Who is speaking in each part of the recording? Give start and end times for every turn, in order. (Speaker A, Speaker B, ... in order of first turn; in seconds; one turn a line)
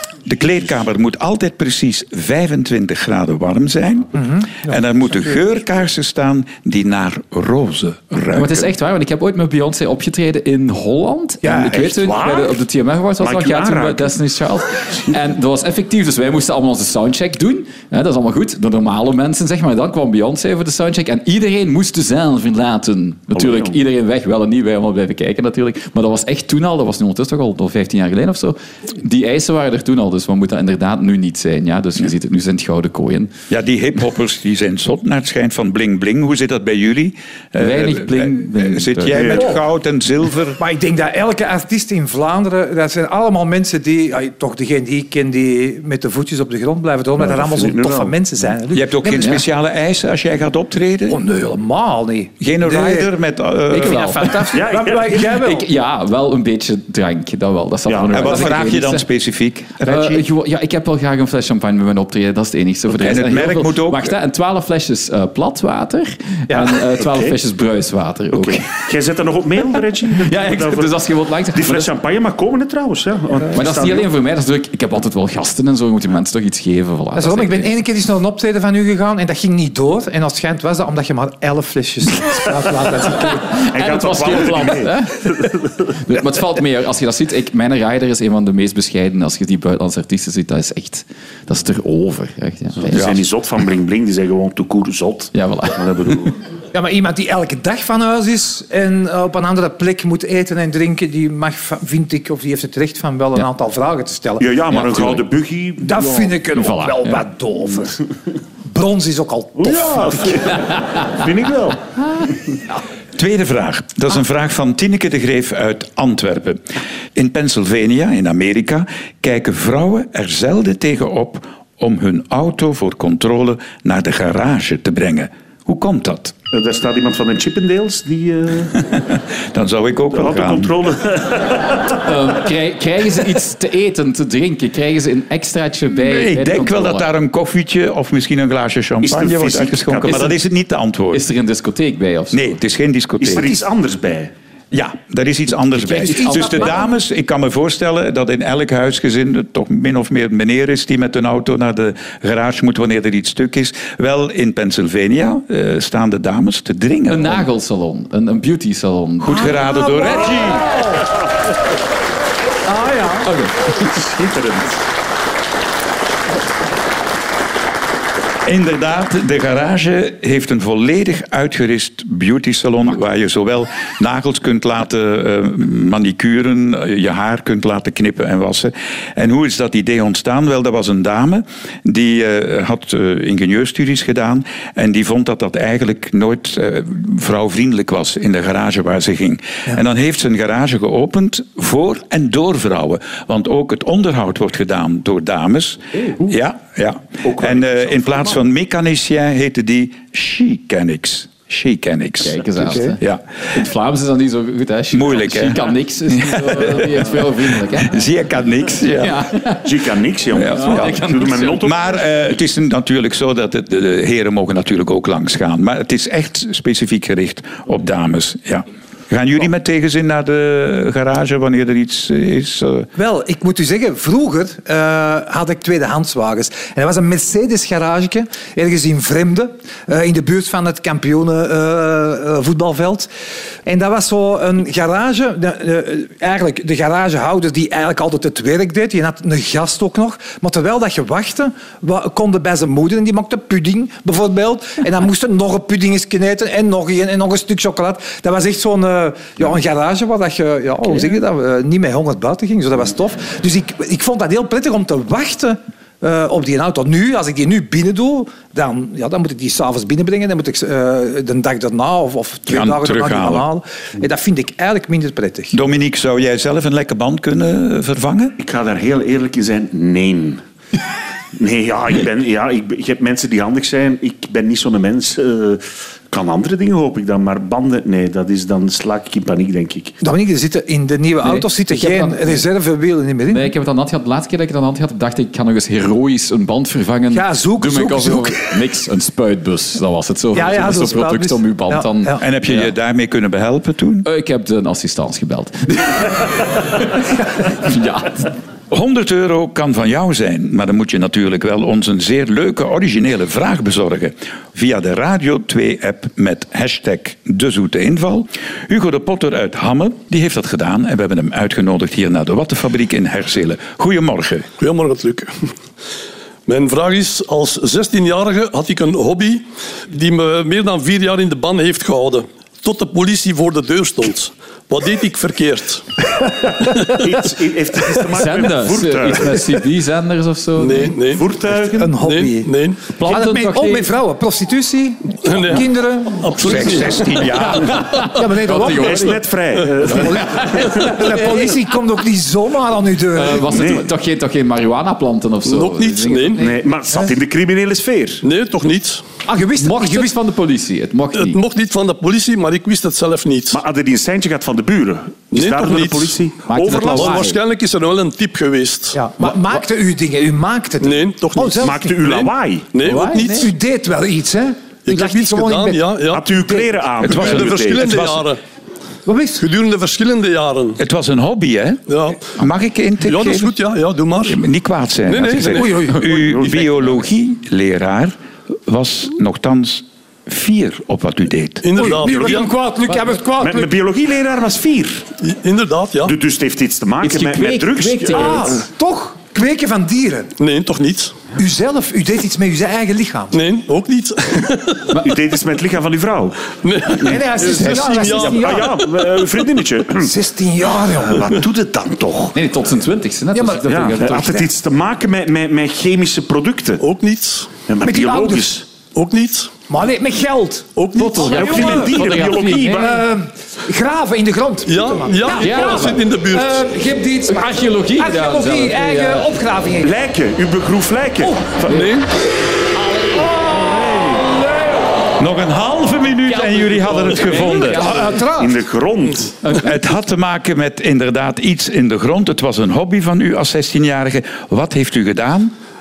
Speaker A: 0.2-8.7
Speaker B: 4.2-4.8
Speaker C: 8.3-33.3
Speaker D: 11.6-12.6
Speaker D: 13.2-14.2
Speaker D: 23.3-23.8
Speaker A: 33.5-40.6
Speaker C: 37.6-39.3
Speaker D: 39.1-39.5
Speaker B: 40.6-49.4
Speaker D: 47.2-48.2
Speaker A: 48.7-51.2
Speaker C: 49.1-49.4
Speaker B: 51.1-53.1
Speaker A: 52.4-54.3
Speaker B: 53.7-55.7
Speaker C: 53.7-54.5
Speaker D: 54.5-55.2
Speaker C: 55.1-59.1
Speaker D: 57.9-58.6
Speaker A: 58.1-60.3
Speaker C: 59.8-68.7
Speaker A: 62.9-64.1
Speaker D: 66.5-67.4
Speaker D: 68.3-74.1
Speaker C: 70.1-71.9
Speaker C: 73.5-77.7
Speaker B: 77.2-83.5
Speaker C: 83.2-93.1
Speaker D: 83.5-85.5
Speaker D: 92.9-96.4
Speaker A: 92.9-93.2
Speaker C: 95.3-95.8
Speaker B: 96.7-104.5
Speaker D: 104.4-106.4
Speaker C: 104.7-105.2
Speaker B: 105.8-108.0
Speaker C: 106.5-107.2
Speaker B: 108.7-110.5
Speaker D: 109.6-112.2
Speaker A: 113.2-116.6
Speaker A: 117.1-126.3
Speaker D: 126.5-128.8
Speaker A: 128.9-130.7
Speaker D: 130.1-131.9
Speaker C: 132.0-137.1
Speaker A: 136.1-141.2
Speaker D: 139.0-140.3
Speaker C: 140.1-140.3
Speaker C: 141.1-142.6
Speaker A: 142.3-143.6
Speaker D: 143.2-144.3
Speaker A: 144.7-157.5
Speaker C: 145.8-146.7
Speaker B: 145.9-146.9
Speaker C: 157.1-159.6
Speaker A: 159.2-160.7
Speaker B: 159.3-161.1
Speaker B: 162.7-163.3
Speaker C: 163.2-164.5
Speaker D: 164.2-164.7
Speaker A: 168.4-203.2
Speaker D: 197.2-198.4
Speaker C: 202.2-208.0
Speaker B: 202.7-202.9
Speaker A: 204.9-209.3
Speaker C: 209.0-209.7
Speaker D: 209.6-212.0
Speaker A: 210.3-211.0
Speaker C: 210.4-211.6
Speaker A: 211.6-222.9
Speaker B: 222.9-233.1
Speaker B: 233.7-265.6
Speaker A: 262.5-263.5
Speaker A: 265.5-268.4
Speaker D: 268.4-270.4
Speaker D: 271.3-280.0
Speaker B: 280.0-283.5
Speaker C: 281.2-282.4
Speaker C: 283.3-292.7
Speaker B: 287.1-288.5
Speaker B: 290.3-292.2
Speaker A: 292.2-294.1
Speaker C: 294.0-298.3
Speaker A: 298.7-314.5
Speaker E: 314.6-315.4
Speaker E: 316.5-325.8
Speaker D: 327.0-329.5
Speaker C: 328.1-330.9
Speaker E: 330.6-331.2
Speaker D: 331.1-332.0
Speaker B: 331.7-332.5
Speaker E: 332.0-332.8
Speaker C: 332.9-333.9
Speaker B: 333.0-339.2
Speaker E: 335.2-335.6
Speaker E: 336.2-337.3
Speaker A: 336.4-337.8
Speaker C: 337.6-339.2
Speaker E: 338.7-339.0
Speaker D: 338.7-340.6
Speaker B: 339.9-343.6
Speaker C: 339.9-341.5
Speaker C: 343.1-346.5
Speaker D: 343.5-343.9
Speaker E: 345.4-346.4
Speaker D: 346.4-348.2
Speaker E: 348.2-349.0
Speaker B: 349.2-350.1
Speaker C: 349.6-351.4
Speaker E: 351.1-353.6
Speaker D: 353.5-357.2
Speaker E: 355.3-356.1
Speaker C: 356.4-357.4
Speaker E: 356.7-359.0
Speaker B: 358.9-361.9
Speaker C: 359.2-359.5
Speaker E: 360.8-363.5
Speaker D: 361.6-362.8
Speaker C: 362.8-363.4
Speaker B: 363.1-365.9
Speaker E: 364.9-366.2
Speaker D: 366.1-368.1
Speaker A: 367.0-368.2
Speaker E: 367.0-368.4
Speaker B: 369.1-369.4
Speaker E: 369.4-370.8
Speaker A: 370.8-373.5
Speaker E: 371.9-372.2
Speaker E: 373.0-374.4
Speaker A: 374.2-381.8
Speaker E: 375.1-375.9
Speaker B: 375.6-376.0
Speaker D: 376.1-376.6
Speaker E: 381.6-382.5
Speaker B: 381.8-383.7
Speaker D: 383.4-385.1
Speaker E: 385.2-386.1
Speaker D: 386.0-388.6
Speaker C: 387.0-388.5
Speaker B: 388.1-390.3
Speaker E: 390.4-391.1
Speaker B: 391.4-393.4
Speaker E: 393.3-394.9
Speaker D: 395.0-400.1
Speaker E: 396.6-398.8
Speaker B: 397.1-398.8
Speaker B: 400.0-401.3
Speaker D: 401.0-402.4
Speaker C: 402.3-404.4
Speaker B: 403.3-404.2
Speaker D: 403.7-406.8
Speaker E: 406.8-407.5
Speaker D: 407.7-408.6
Speaker B: 407.8-408.6
Speaker E: 408.9-409.5
Speaker B: 409.7-412.0
Speaker E: 410.8-411.8
Speaker C: 410.9-413.0
Speaker D: 411.2-413.0
Speaker B: 412.8-419.9
Speaker E: 414.6-416.7
Speaker C: 415.3-416.0
Speaker C: 417.3-419.3
Speaker D: 419.8-421.9
Speaker E: 421.7-422.1
Speaker D: 423.4-424.2
Speaker A: 425.2-427.9
Speaker C: 426.3-428.2
Speaker B: 427.3-428.6
Speaker D: 428.3-429.3
Speaker C: 429.4-429.7
Speaker A: 429.6-435.5